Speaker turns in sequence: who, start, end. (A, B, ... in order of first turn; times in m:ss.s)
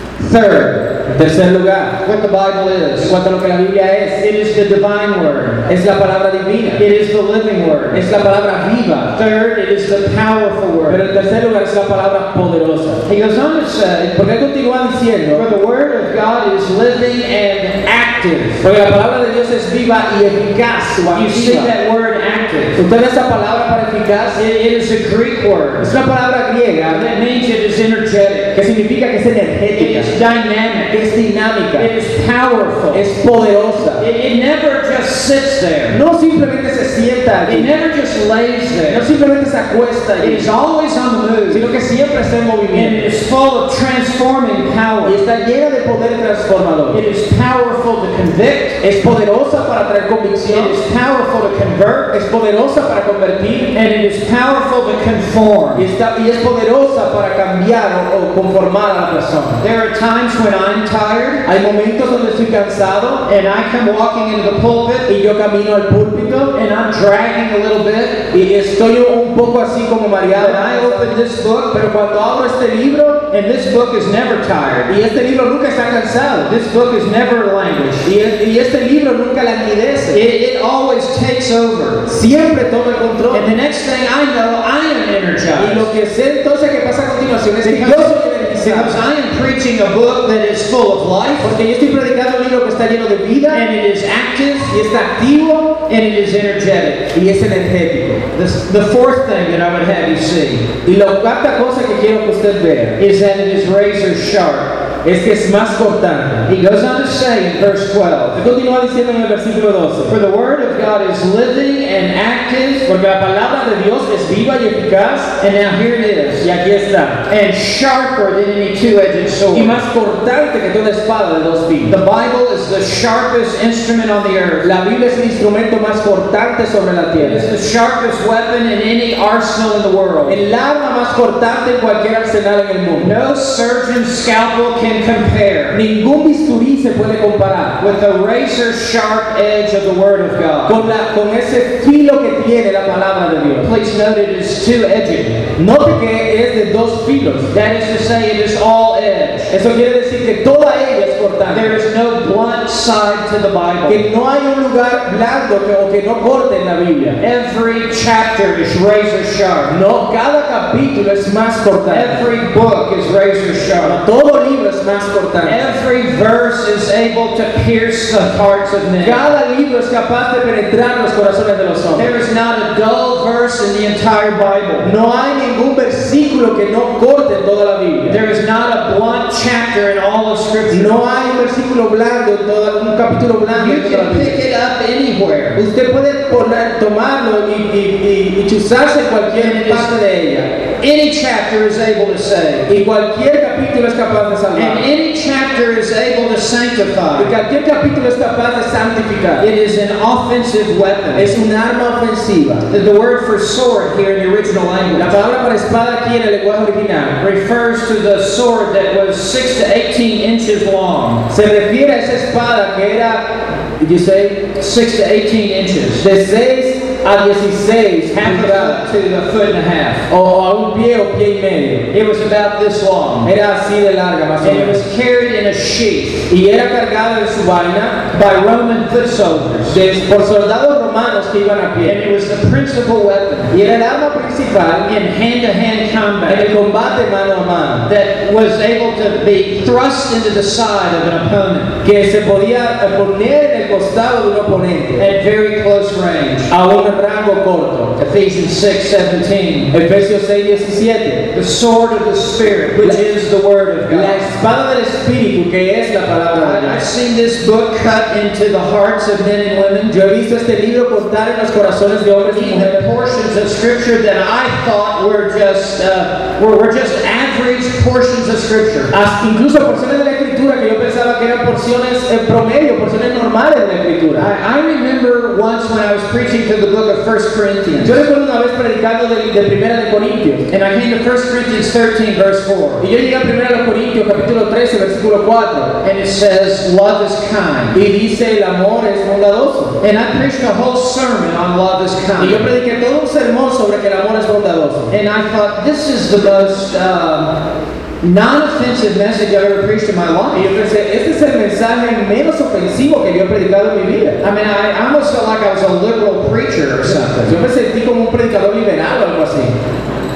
0:00.2-0:00.9 A
0:01.0-0:02.0 B
0:02.0-0:03.1 A
0:03.0-0:04.2 B
0:04.2-0:05.6 A
0:05.7-0:06.8 B
0:06.8-0:08.0 A
0:07.9-0:09.1 B
0:09.1-0:11.0 A
0:10.9-0:13.0 B
0:13.0-0:14.2 A
0:14.1-0:15.5 B
0:15.3-0:18.6 A
0:18.6-0:21.7 B
0:21.1-0:22.8 A
0:22.8-0:24.4 B
0:24.3-0:25.9 A
0:25.8-0:27.0 B
0:26.9-0:28.5 A
0:28.5-0:30.1 B
0:29.8-0:31.0 A
0:30.9-0:31.9 B
0:31.8-0:33.1 A
0:32.9-0:34.0 B
0:34.0-0:36.0 A
0:35.9-0:37.7 B
0:37.5-0:39.0 A
0:38.9-0:40.4 B
0:40.2-0:41.6 A
0:41.5-0:43.0 B
0:42.7-0:45.2 A
0:45.0-0:47.0 B
0:46.9-0:48.8 A
0:48.8-0:50.8 B
0:50.5-0:52.1 A
0:52.1-0:53.7 B
0:53.7-0:55.9 A
0:55.8-0:59.6 B
0:59.6-1:01.4 A
1:01.4-1:03.2 B
1:03.2-1:05.1 A
1:05.1-1:06.5 B
1:06.5-1:08.2 A
1:08.3-1:11.1 B
1:10.4-1:11.8 A
1:11.7-1:13.2 B
1:13.3-1:14.9 A
1:14.9-1:16.5 B
1:16.4-1:18.1 A
1:18.0-1:20.2 B
1:20.1-1:22.1 A
1:22.1-1:23.5 B
1:23.3-1:25.9 A
1:25.6-1:29.0 B
1:27.6-1:31.5 A
1:31.4-1:33.6 B
1:33.5-1:34.7 A
1:34.7-1:35.8 B
1:35.9-1:37.1 A
1:37.1-1:38.2 B
1:38.3-1:40.7 A
1:40.8-1:43.0 B
1:43.0-1:44.7 A
1:45.0-1:46.5 B
1:46.4-1:48.4 A
1:48.3-1:50.2 B
1:50.1-1:52.8 A
1:52.8-1:55.3 B
1:55.4-1:56.5 A
1:56.4-1:57.2 B
1:57.3-1:59.8 A
1:59.5-2:02.0 B
2:01.9-2:04.7 A
2:04.6-2:07.5 B
2:07.2-2:10.4 A
2:10.2-2:13.1 B
2:13.0-2:15.8 A
2:15.7-2:17.8 B
2:17.8-2:20.8 A
2:20.6-2:23.7 B
2:23.6-2:25.4 A
2:25.6-2:27.5 B
2:27.5-2:29.5 A
2:29.5-2:31.7 B
2:31.5-2:34.0 A
2:33.9-2:37.2 B
2:37.2-2:39.7 A
2:39.7-2:42.2 B
2:41.9-2:44.0 A
2:43.8-2:45.6 B
2:45.4-2:49.2 A
2:49.0-2:52.1 B
2:51.9-2:54.9 A
2:54.8-2:58.2 B
2:58.1-3:01.0 A
3:00.7-3:04.4 B
3:03.5-3:05.6 A
3:05.6-3:10.5 B
3:09.4-3:09.9 A
3:10.8-3:12.7 A
3:12.7-3:14.8 B
3:14.5-3:17.3 A
3:17.2-3:19.5 B
3:19.4-3:21.3 A
3:21.1-3:22.6 B
3:22.7-3:25.2 A
3:24.9-3:27.2 B
3:27.2-3:31.2 A
3:31.3-3:34.4 B
3:34.6-3:36.0 A
3:36.0-3:38.8 B
3:38.1-3:40.0 A
3:40.1-3:41.9 B
3:41.9-3:43.3 A
3:43.2-3:44.8 B
3:44.4-3:46.3 A
3:46.3-3:48.0 B
3:48.1-3:49.8 A
3:49.7-3:52.0 B
3:51.8-3:53.5 A
3:53.5-3:54.9 B
3:54.9-3:56.5 A
3:56.3-3:57.9 B
3:57.8-4:01.7 A
4:01.8-4:05.1 B
4:05.0-4:06.5 A
4:06.5-4:07.9 B
4:08.0-4:09.7 A
4:09.7-4:11.2 B
4:11.3-4:14.3 A
4:13.9-4:16.8 B
4:16.3-4:19.9 A
4:19.9-4:22.8 B
4:22.3-4:28.9 A
4:28.9-4:34.3 B
4:34.2-4:38.0 A
4:37.8-4:40.4 B
4:40.5-4:42.8 A
4:42.8-4:45.7 B
4:45.8-4:47.8 A
4:47.7-4:49.8 B
4:49.8-4:52.4 A
4:52.2-4:54.9 B
4:54.9-4:57.3 A
4:58.0-5:00.5 A
5:00.3-5:04.2 B
5:04.2-5:07.4 A
5:07.2-5:09.5 B